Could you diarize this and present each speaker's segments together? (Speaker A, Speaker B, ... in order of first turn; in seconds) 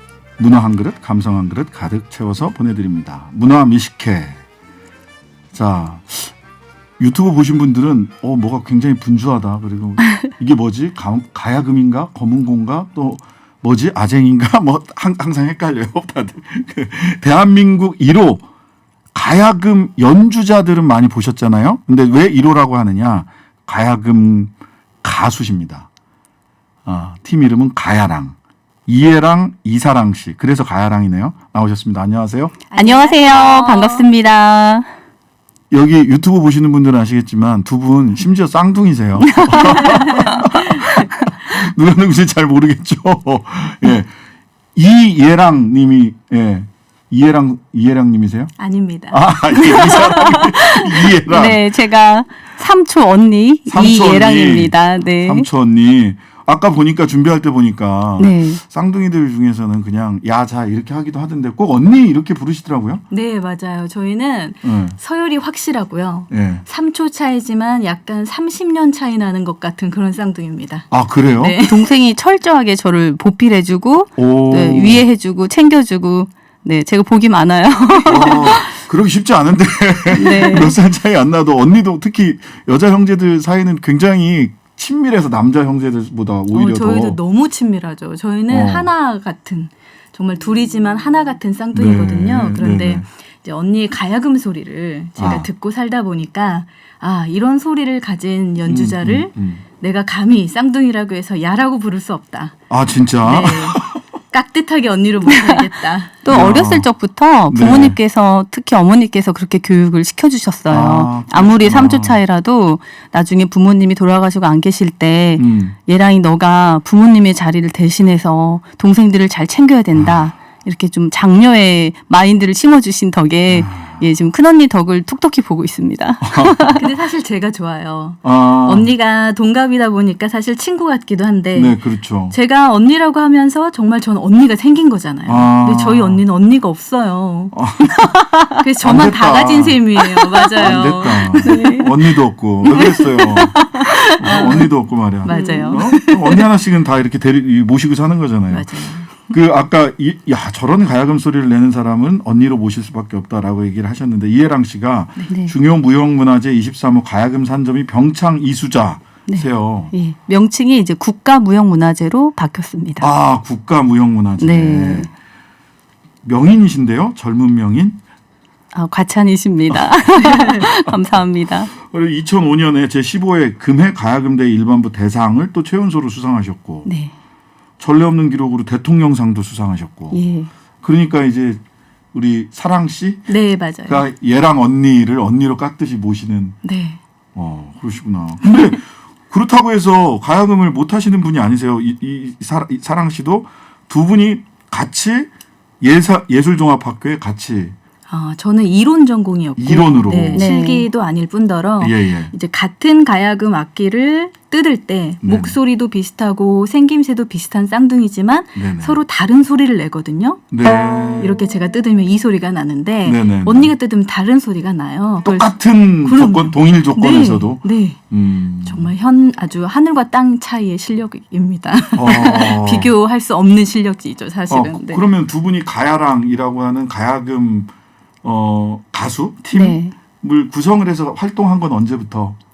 Speaker A: 0.4-4.4, 5.5-6.3, 7.0-18.4, 19.1-24.5, 25.0-25.9, 26.9-28.4, 28.9-32.5, 35.7-44.1, 44.7-48.5, 49.1-51.6, 53.7-63.0, 64.6-65.0, 66.3-66.6, 70.9-71.6, 74.2-75.0, 78.0-87.2, 88.5-88.9, 91.7-93.0, 95.2-95.5, 98.7-99.6, 102.7-104.0, 106.3-106.9, 107.5-108.0, 110.7-112.2, 115.4-115.8, 119.9-120.3, 123.5-124.0, 126.2-126.8, 128.2-128.9, 131.5-132.3, 135.3-136.2, 137.5-138.2, 138.8-139.8, 140.6-159.9, 163.0-165.1, 166.2-168.0, 169.7-170.9, 171.7-176.9, 177.8-180.2, 180.8-181.6, 182.1-183.3, 183.9-186.6, 187.3-195.3, 195.8-197.8, 199.6-200.5, 201.8-202.3, 205.2-205.6, 208.6-209.0, 210.5-211.3, 213.0-213.7, 215.2-218.9, 221.9-222.9, 224.5-227.7, 228.2-232.4
Speaker B: 32.7-34.1, 48.6-50.8, 63.1-71.9, 86.5-102.7, 103.2-106.2, 126.7-137.6, 138.6-141.8, 142.7-144.7, 145.2-146.5, 148.5-149.1, 170.3-170.6, 183.3-184.0, 186.6-187.0, 198.1-210.5, 211.2-218.0, 218.6-225.0
Speaker C: 32.8-34.9, 39.2-41.3, 51.0-55.5, 58.2-58.6, 71.6-78.7, 80.1-80.7, 105.2-126.9, 138.1-138.5, 140.3-141.9, 142.7-144.7, 145.3-145.8, 155.3-155.5, 159.3-163.1, 164.4-165.1, 168.7-171.7, 176.8-177.1, 180.1-180.5, 200.3-200.9, 229.5-229.9